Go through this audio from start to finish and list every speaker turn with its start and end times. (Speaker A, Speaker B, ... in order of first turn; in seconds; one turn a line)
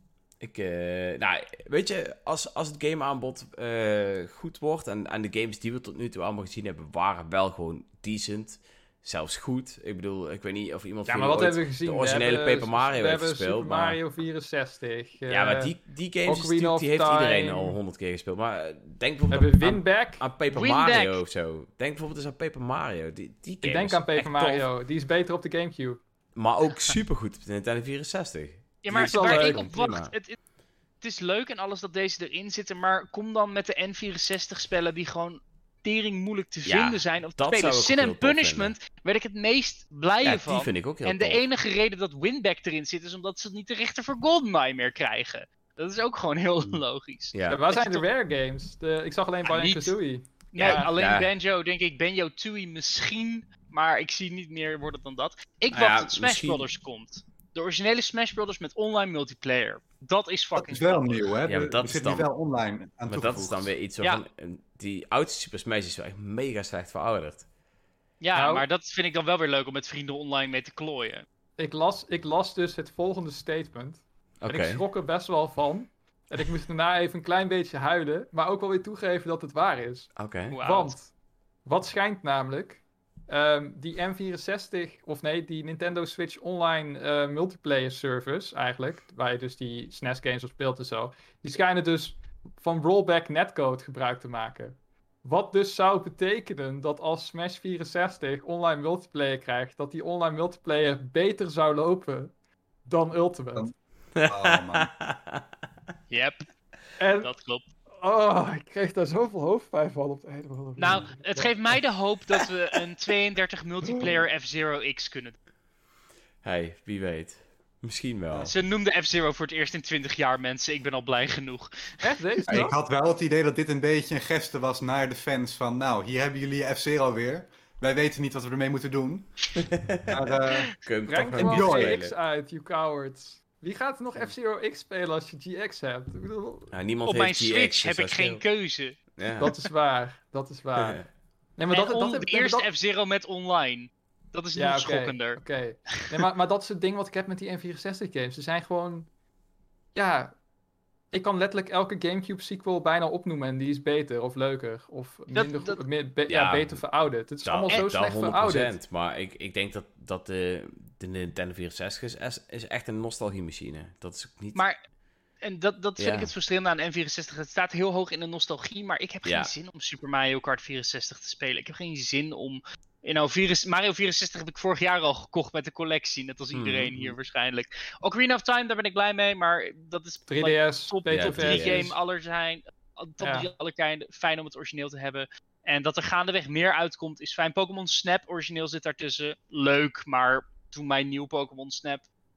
Speaker A: 0.4-14.0
Speaker B: 11.1-17.8
Speaker A: 15.3-24.7
Speaker B: 19.3-20.2
Speaker C: 20.5-21.1
Speaker B: 23.6-26.0
Speaker A: 26.3-30.1
Speaker C: 28.8-30.4
Speaker B: 29.0-29.7
Speaker C: 31.0-48.0
Speaker A: 36.6-38.7
Speaker A: 40.2-41.4
Speaker A: 47.3-47.6
Speaker B: 47.5-50.9
Speaker C: 49.4-49.9
Speaker C: 50.5-61.3
Speaker A: 50.6-51.3
Speaker A: 55.7-56.6
Speaker D: 60.5-63.7
Speaker A: 61.4-62.3
Speaker A: 63.1-67.4
Speaker C: 68.2-71.2
Speaker B: 68.3-68.6
Speaker B: 71.6-81.1
Speaker A: 74.4-74.8
Speaker A: 80.2-80.6
Speaker C: 80.5-80.9
Speaker B: 81.6-102.3
Speaker B: 102.8-103.7
Speaker A: 104.1-105.4
Speaker D: 104.2-104.9
Speaker C: 106.1-106.4
Speaker B: 107.0-107.3
Speaker C: 107.2-107.6
Speaker B: 108.0-111.5
Speaker C: 110.8-115.3
Speaker A: 116.4-118.5
Speaker C: 118.3-122.0
Speaker B: 122.0-122.8
Speaker D: 122.5-129.4
Speaker A: 129.6-132.1
Speaker D: 130.1-130.7
Speaker B: 131.1-136.7
Speaker D: 131.3-132.0
Speaker A: 136.7-138.4
Speaker C: 137.1-139.1
Speaker A: 139.2-139.5
Speaker B: 139.4-141.0
Speaker A: 140.8-141.0
Speaker B: 141.6-142.7
Speaker C: 141.7-145.4
Speaker B: 144.5-149.1
Speaker B: 149.9-150.3
Speaker B: 151.1-158.8
Speaker C: 155.3-155.8
Speaker A: 156.3-156.8
Speaker A: 157.4-164.6
Speaker C: 165.4-192.1
Speaker A: 166.0-166.3
Speaker A: 169.2-169.5
Speaker A: 176.5-177.2
Speaker B: 180.3-182.0
Speaker A: 181.1-181.9
Speaker B: 183.2-183.5